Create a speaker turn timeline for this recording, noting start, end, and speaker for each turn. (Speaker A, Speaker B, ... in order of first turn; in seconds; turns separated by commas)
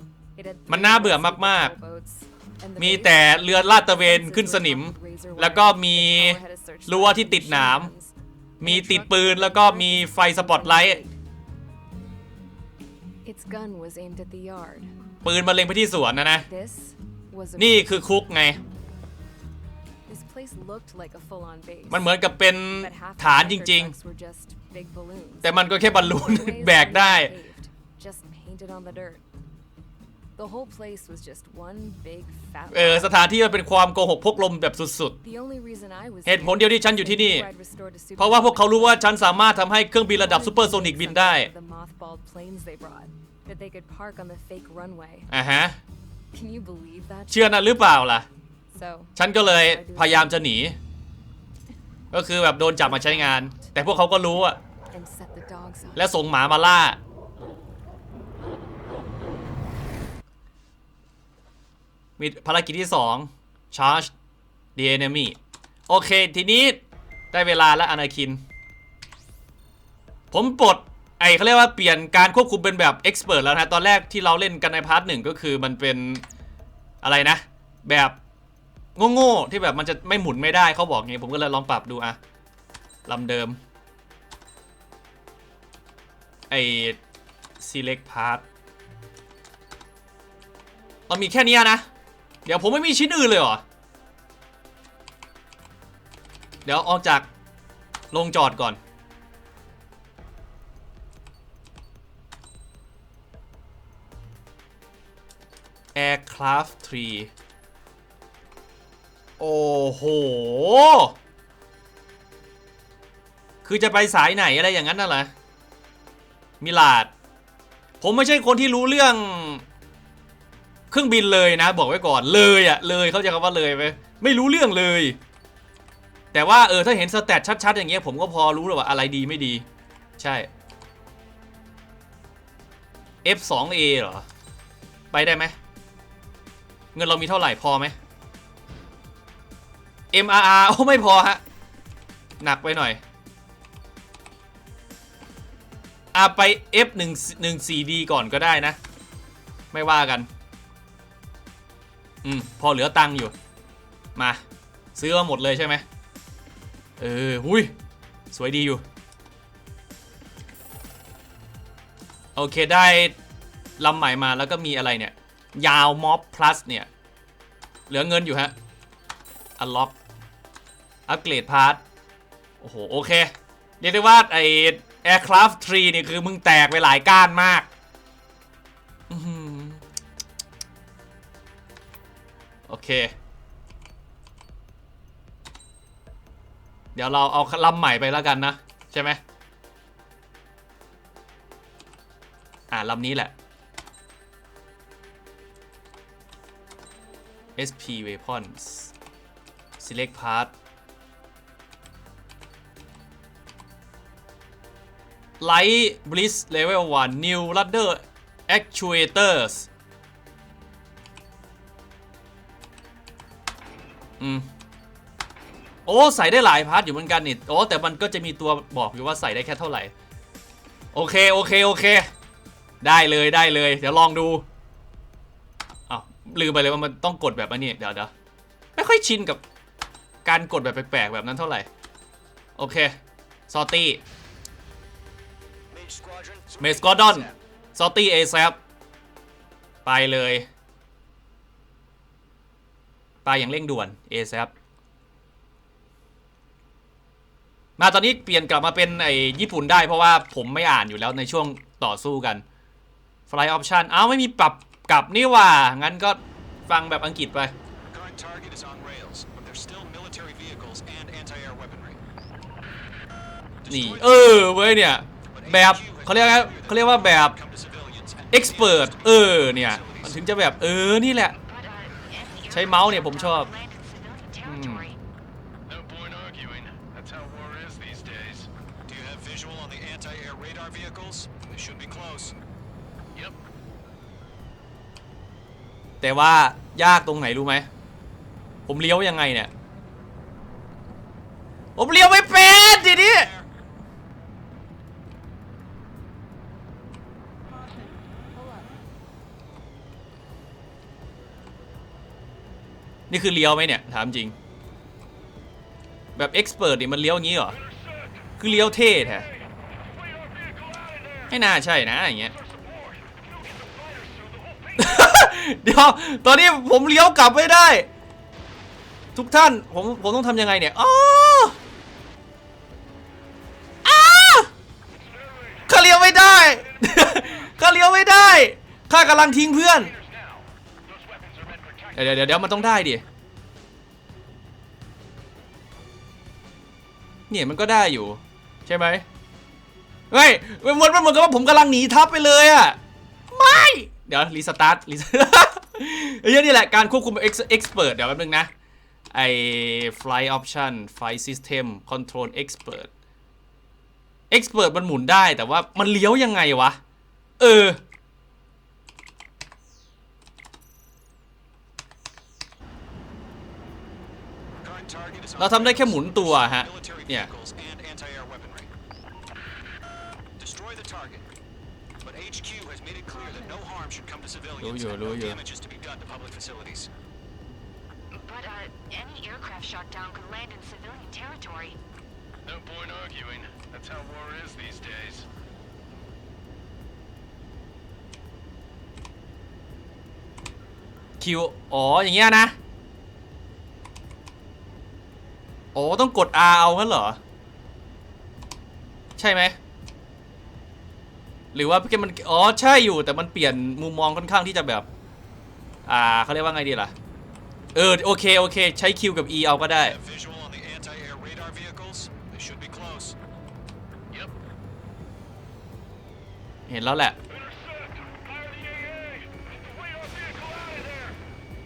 Speaker A: 0.3-11.1, Speaker B: 0.7-1.7, Speaker B: 2.8-7.9, Speaker B: 8.6-11.0, Speaker A: 13.2-14.9, Speaker B: 15.2-16.5, Speaker A: 16.5-17.9, Speaker B: 17.6-18.6, Speaker A: 20.1-22.1, Speaker B: 21.9-23.9, Speaker A: 22.8-29.2, Speaker B: 25.4-27.3, Speaker A: 30.4-33.1, Speaker B: 32.7-35.1, Speaker A: 35.2-39.4, Speaker B: 36.2-37.5, Speaker B: 38.2-41.5, Speaker A: 40.1-45.3, Speaker B: 45.3-45.8, Speaker A: 46.3-47.6, Speaker B: 47.3-48.2, Speaker A: 48.7-50.5, Speaker B: 49.1-50.8, Speaker B: 52.1-54.6, Speaker A: 52.8-53.7, Speaker A: 54.9-56.1, Speaker B: 55.9-57.0, Speaker B: 62.2-64.1, Speaker B: 64.8-65.4, Speaker B: 65.9-66.8, Speaker B: 67.3-68.4, Speaker B: 70.3-76.2, Speaker B: 77.0-78.2, Speaker B: 79.0-82.2, Speaker B: 83.1-83.6, Speaker B: 86.5-87.0, Speaker B: 87.6-88.4, Speaker B: 91.1-91.8, Speaker B: 92.4-93.6, Speaker B: 96.6-97.3, Speaker B: 98.1-98.8, Speaker B: 105.9-107.3, Speaker B: 109.4-111.1, Speaker B: 113.6-115.3, Speaker B: 116.6-117.1, Speaker B: 118.0-119.6, Speaker B: 120.9-125.2, Speaker B: 126.3-129.6, Speaker B: 130.2-130.5, Speaker B: 133.2-134.2, Speaker B: 135.1-135.5, Speaker B: 136.9-137.9, Speaker B: 140.1-141.4, Speaker B: 142.4-143.0, Speaker B: 146.1-148.8, Speaker B: 149.7-150.3, Speaker B: 152.2-153.3, Speaker B: 154.9-155.8, Speaker B: 157.0-157.7, Speaker B: 158.3-158.8, Speaker B: 162.3-163.1, Speaker B: 163.8-166.9, Speaker B: 167.9-168.5, Speaker B: 169.6-169.9, Speaker B: 171.1-171.8, Speaker B: 172.6-177.7, Speaker B: 179.1-179.8, Speaker B: 182.7-183.1, Speaker B: 186.9-189.2, Speaker B: 192.7-193.3, Speaker B: 197.6-198.9, Speaker B: 199.8-200.5, Speaker B: 205.4-209.7, Speaker B: 214.2-214.4, Speaker B: 215.8-219.9, Speaker B: 220.9-222.1, Speaker B: 222.8-224.4, Speaker B: 225.9-228.1, Speaker B: 228.8-229.4, Speaker B: 230.2-231.7, Speaker B: 232.6-232.9, Speaker B: 233.5-234.0, Speaker C: 235.7-237.3, Speaker B: 236.6-238.6, Speaker B: 239.8-240.4, Speaker B: 243.2-244.5, Speaker B: 247.8-252.4, Speaker B: 253.3-257.5, Speaker C: 257.9-262.0, Speaker C: 263.6-264.3, Speaker B: 263.7-267.4, Speaker C: 265.3-270.2, Speaker B: 268.3-271.4, Speaker D: 271.4-275.0, Speaker B: 272.5-273.5, Speaker B: 274.4-274.8, Speaker E: 275.6-278.5, Speaker C: 278.8-282.3, Speaker E: 283.1-283.4, Speaker B: 286.0-287.7, Speaker B: 288.7-289.5, Speaker B: 291.8-293.3, Speaker C: 292.5-293.5, Speaker B: 303.1-304.3, Speaker B: 306.2-307.6, Speaker B: 308.4-309.2, Speaker B: 311.3-312.3, Speaker E: 312.5-312.9, Speaker E: 313.4-314.8, Speaker B: 314.8-317.9, Speaker B: 319.1-321.6, Speaker B: 323.8-324.5, Speaker B: 325.7-329.9, Speaker E: 329.8-332.5, Speaker B: 331.9-333.0, Speaker B: 337.3-339.1, Speaker B: 340.1-342.8, Speaker B: 343.3-348.5, Speaker B: 349.1-352.9, Speaker B: 354.3-356.8, Speaker B: 357.4-357.8, Speaker C: 364.6-368.7, Speaker B: 365.4-367.3, Speaker C: 370.4-371.3, Speaker C: 372.0-376.9, Speaker B: 374.6-375.4, Speaker D: 378.1-381.8, Speaker E: 382.4-385.3, Speaker B: 391.2-392.6, Speaker B: 395.7-397.2, Speaker B: 399.2-399.6, Speaker B: 401.5-404.9, Speaker B: 405.9-406.9, Speaker B: 407.7-410.0, Speaker C: 409.8-413.2, Speaker B: 416.7-417.2, Speaker E: 417.4-419.3, Speaker E: 420.0-421.1